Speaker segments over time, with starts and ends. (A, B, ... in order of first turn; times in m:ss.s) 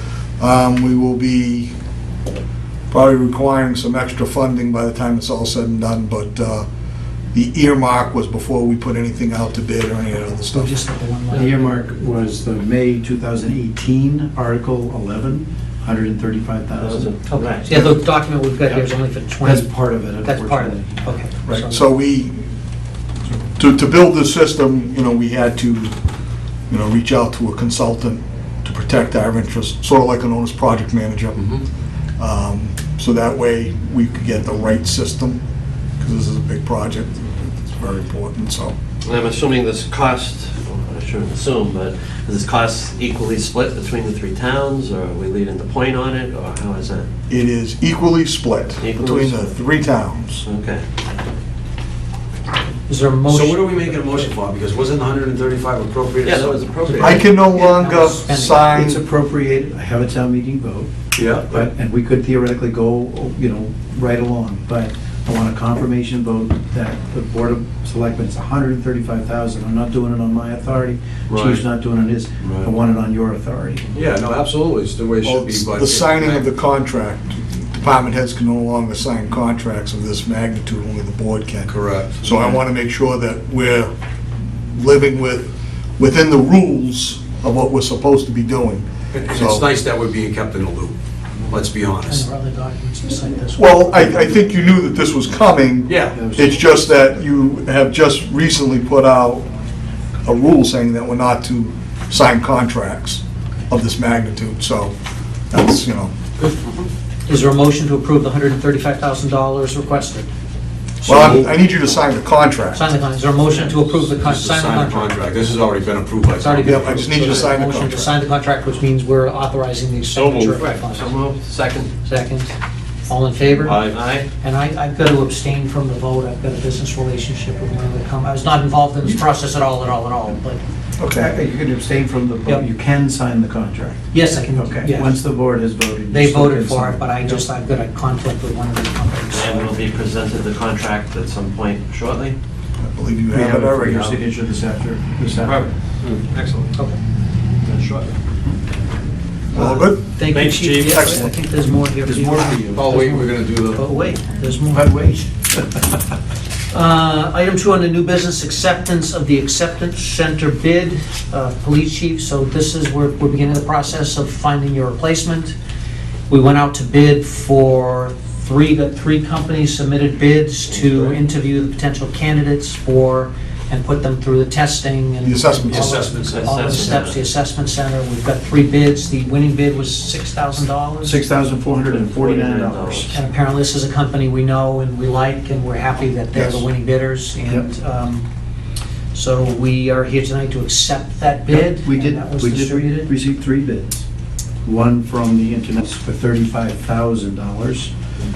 0:00.4-0:01.7 A
0:02.9-0:06.6 A
0:07.3-0:10.7 A
0:10.5-0:11.8 B
0:11.3-0:17.1 C
0:16.8-0:17.7 D
0:17.3-0:21.9 B
0:19.4-0:21.1 C
0:21.4-0:22.4 A
0:23.5-0:25.9 A
0:26.7-0:31.5 A
0:31.4-0:31.6 E
0:32.2-0:35.4 A
0:36.0-0:38.7 A
0:39.0-0:47.1 D
0:47.3-0:50.4 A
0:48.8-0:49.5 D
0:50.4-0:51.0 D
0:52.9-0:54.3 B
0:53.3-0:57.0 E
0:56.2-0:57.3 D
0:57.0-0:59.0 A
0:57.2-0:58.8 B
0:58.7-1:00.9 C
1:01.2-1:01.6 E
1:01.4-1:13.8 C
1:11.3-1:11.6 D
1:12.4-1:12.7 D
1:13.9-1:16.5 E
1:15.2-1:23.9 A
1:21.7-1:22.2 E
1:24.7-1:29.6 A
1:29.1-1:30.9 E
1:31.5-1:32.2 E
1:32.1-1:34.3 B
1:33.6-1:39.5 A
1:35.8-1:36.2 E
1:36.1-1:37.2 C
1:40.2-1:44.9 A
1:45.5-1:46.1 A
1:47.3-1:50.3 B
1:51.0-1:51.7 E
1:51.0-1:52.9 A
1:52.7-1:55.4 B
1:53.9-1:57.1 E
1:56.4-2:01.1 B
1:56.6-1:58.2 A
2:00.1-2:00.6 E
2:00.6-2:01.9 D
2:02.0-2:02.5 B
2:03.1-2:10.6 B
2:03.7-2:04.0 E
2:03.8-2:04.3 D
2:11.0-2:11.3 A
2:11.1-2:17.5 C
2:14.1-2:15.2 B
2:16.1-2:19.8 B
2:19.3-2:22.4 D
2:22.8-2:24.0 A
2:23.3-2:25.7 C
2:25.4-2:26.7 D
2:27.6-2:28.2 D
2:29.5-2:30.2 A
2:29.5-2:34.9 B
2:30.3-2:31.1 E
2:31.0-2:31.2 A
2:31.0-2:33.0 C
2:32.8-2:33.8 E
2:34.7-2:35.9 C
2:36.7-2:45.5 B
2:46.3-3:01.2 B
2:55.2-2:55.9 A
2:55.7-2:56.6 E
2:56.2-2:57.2 D
3:01.0-3:03.1 C
3:01.9-3:03.1 D
3:03.1-3:08.2 B
3:06.3-3:06.6 A
3:09.1-3:13.1 B
3:11.5-3:14.0 C
3:14.6-3:17.9 C